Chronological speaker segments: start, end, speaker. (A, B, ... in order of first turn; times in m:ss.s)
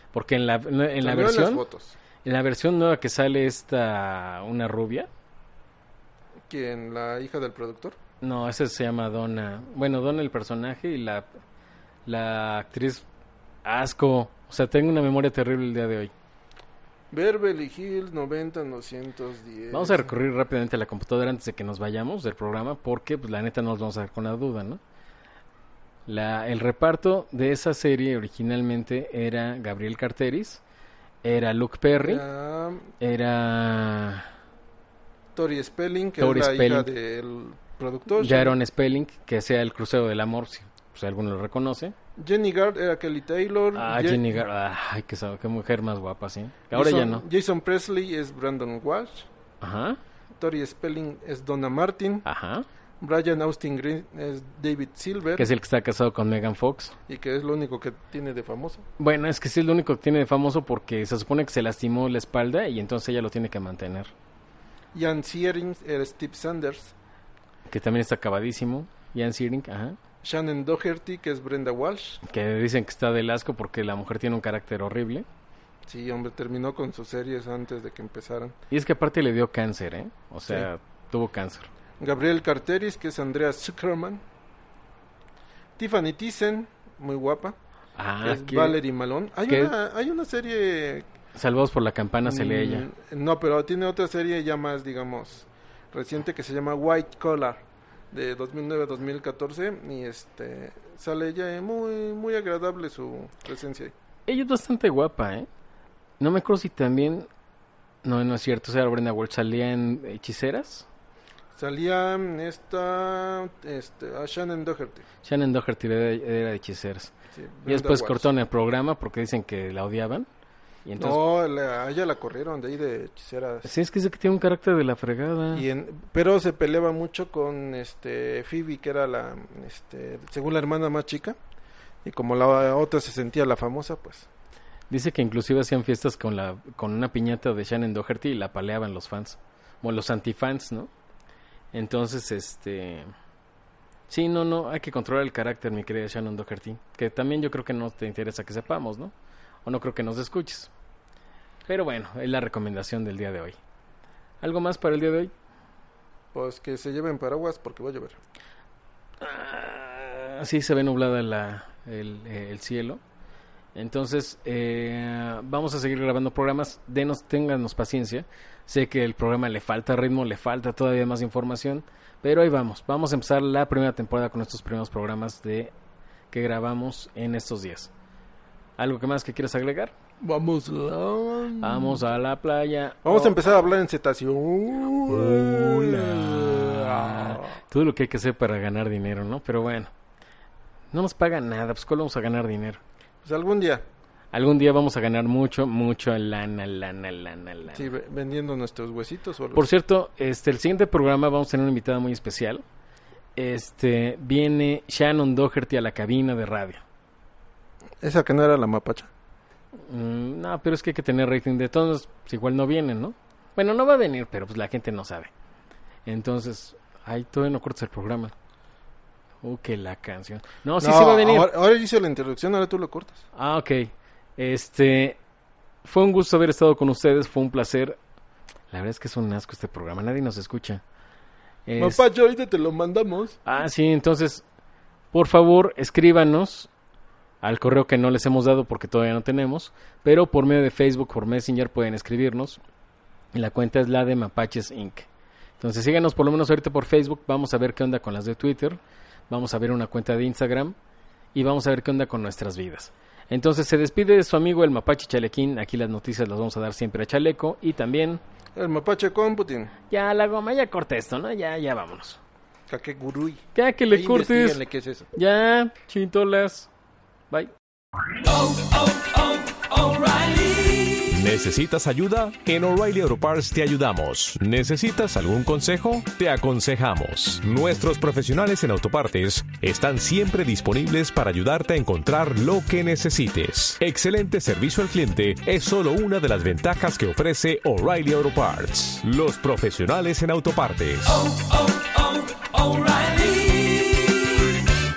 0:00.1-0:01.6 A
0:01.0-0:02.0 B
0:02.2-0:05.1 A
0:06.5-0:08.0 B
0:08.2-0:11.3 A
0:12.1-0:13.0 A
0:13.6-0:16.1 A
0:17.1-0:20.1 B
0:19.7-0:24.8 A
0:26.1-0:30.6 A
0:31.2-0:32.2 A
0:32.0-0:32.9 B
0:33.0-0:34.3 A
0:35.4-0:38.6 B
0:36.2-0:36.9 A
0:38.2-0:42.0 A
0:42.2-0:44.4 B
0:43.8-0:47.2 A
0:46.7-0:49.3 B
0:49.6-0:50.0 A
0:50.4-0:52.3 B
0:52.2-0:52.7 A
0:53.0-0:55.5 B
0:55.4-0:57.0 A
0:57.1-0:58.8 B
0:59.0-1:04.1 A
1:04.9-1:06.9 B
1:07.7-1:10.0 A
1:10.2-1:12.2 B
1:12.2-1:15.3 A
1:15.9-1:18.6 B
1:18.7-1:21.7 A
1:22.0-1:24.2 B
1:25.8-1:27.6 B
1:28.0-1:28.8 A
1:28.2-1:31.1 B
1:29.5-1:29.7 A
1:31.4-1:32.9 A
1:32.2-1:43.9 B
1:44.3-1:45.5 A
1:46.2-1:47.3 A
1:48.0-1:50.9 A
1:51.6-1:55.0 B
1:55.2-1:57.1 A
1:57.3-1:58.3 B
1:57.7-2:00.3 A
2:00.8-2:01.2 A
2:01.0-2:03.7 B
2:03.6-2:05.6 A
2:05.5-2:11.4 B
2:12.0-2:14.3 B
2:14.9-2:20.9 A
2:21.7-2:23.1 A
2:24.1-2:29.1 A
2:29.6-2:30.7 A
2:31.7-2:33.6 A
2:34.4-2:35.3 A
2:36.3-2:38.2 B
2:39.2-2:43.0 A
2:43.8-2:55.7 A
2:56.3-2:57.9 A
2:58.8-2:59.9 A
3:00.2-3:02.0 B
3:01.6-3:03.6 A
3:03.0-3:07.6 B
3:05.1-3:09.9 A
3:10.9-3:12.8 A
3:13.2-3:13.8 B
3:14.3-3:17.9 A
3:17.7-3:19.7 B
3:19.5-3:22.6 A
3:23.4-3:26.8 A
3:28.0-3:29.1 B
3:29.8-3:35.3 A
3:36.1-3:38.3 A
3:39.4-3:41.5 A
3:40.8-3:43.2 B
3:43.3-3:45.2 A
3:45.8-3:48.0 A
3:48.7-3:50.8 A
3:51.7-3:52.0 A
3:51.8-3:53.4 B
3:53.5-3:54.4 A
3:55.1-3:56.7 A
3:57.4-4:02.6 A
4:03.3-4:05.1 A
4:05.6-4:10.8 A
4:11.3-4:18.2 A
4:18.6-4:19.7 B
4:19.9-4:22.2 A
4:22.7-4:25.1 B
4:23.6-4:24.6 A
4:25.1-4:26.7 A
4:28.6-4:29.8 C
4:29.8-4:30.9 A
4:30.9-4:54.3 C